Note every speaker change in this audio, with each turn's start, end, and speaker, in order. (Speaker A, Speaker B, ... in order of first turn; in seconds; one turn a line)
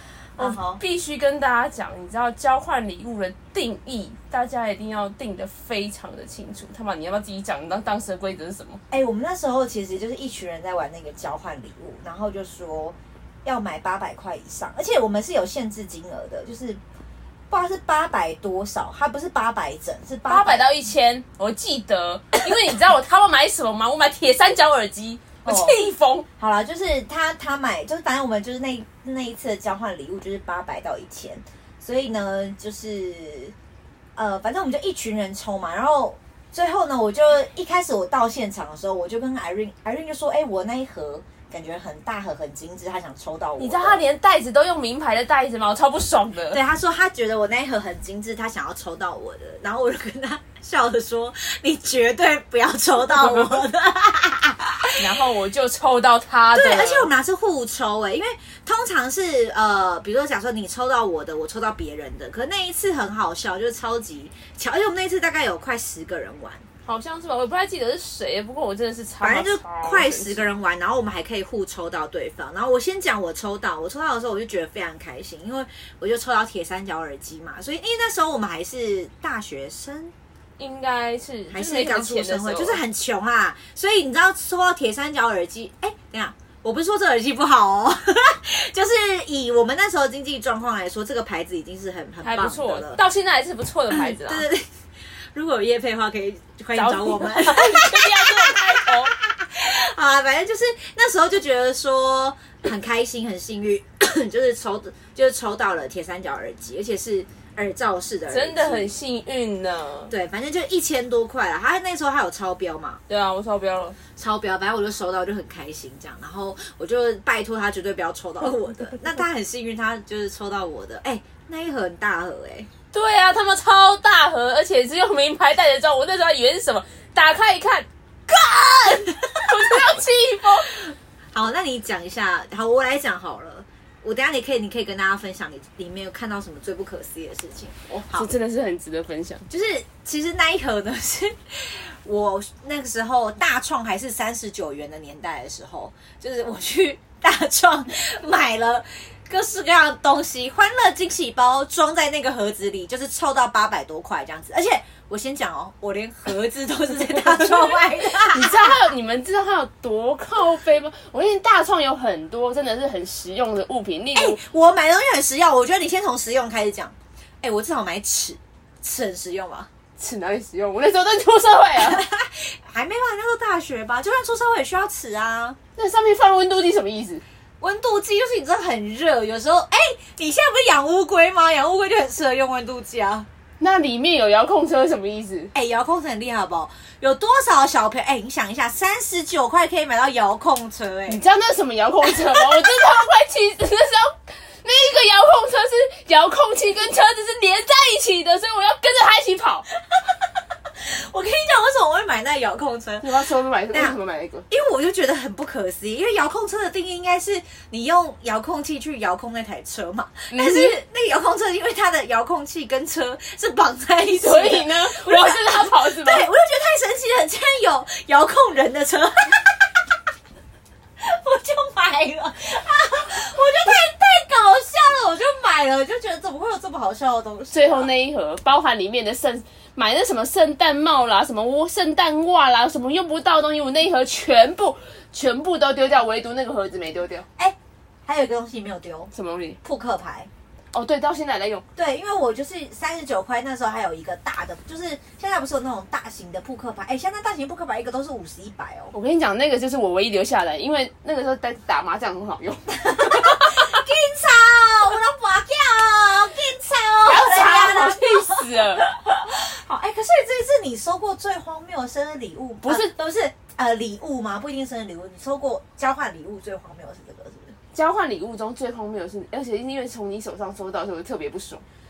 Speaker A: 0.4-0.8
Speaker B: 0.4-8.8
Speaker A: 8.9-16.8
Speaker A: 17.5-20.6
Speaker B: 20.3-26.3
Speaker A: 25.4-25.8
Speaker A: 26.4-33.5
Speaker A: 34.2-44.0
Speaker B: 43.6-46.6
Speaker A: 46.5-55.0
Speaker B: 55.0-57.1
Speaker A: 56.5-66.7
Speaker B: 66.8-70.5
Speaker A: 69.2-80.1
Speaker B: 80.6-82.8
Speaker A: 81.5-93.0
Speaker B: 92.2-94.5
Speaker A: 93.9-94.7
Speaker A: 95.3-108.9
Speaker B: 96.8-99.2
Speaker B: 108.3-110.1
Speaker A: 110.1-113.0
Speaker B: 113.1-114.0
Speaker A: 114.2-122.7
Speaker B: 122.9-127.8
Speaker A: 128.3-129.8
Speaker B: 129.3-130.7
Speaker A: 130.7-138.3
Speaker B: 138.1-139.5
Speaker A: 139.5-158.8
Speaker B: 158.2-164.4
Speaker A: 164.2-169.7
Speaker B: 170.0-172.1
Speaker A: 171.8-175.6
Speaker B: 175.8-177.2
Speaker A: 177.6-183.3
Speaker B: 183.6-185.5
Speaker A: 185.5-191.2
Speaker B: 191.1-199.7
Speaker A: 192.1-192.7
Speaker A: 200.8-203.1
Speaker B: 203.0-204.5
Speaker A: 204.5-219.8
Speaker B: 210.3-210.8
Speaker B: 214.2-216.3
Speaker A: 221.0-227.9
Speaker B: 227.5-237.3
Speaker A: 237.4-239.1
Speaker B: 239.1-239.6
Speaker A: 239.6-240.3
Speaker B: 240.7-241.7
Speaker A: 241.8-248.9
Speaker B: 248.9-253.6
Speaker A: 252.8-267.6
Speaker B: 257.0-258.9
Speaker B: 262.6-262.9
Speaker B: 267.7-271.6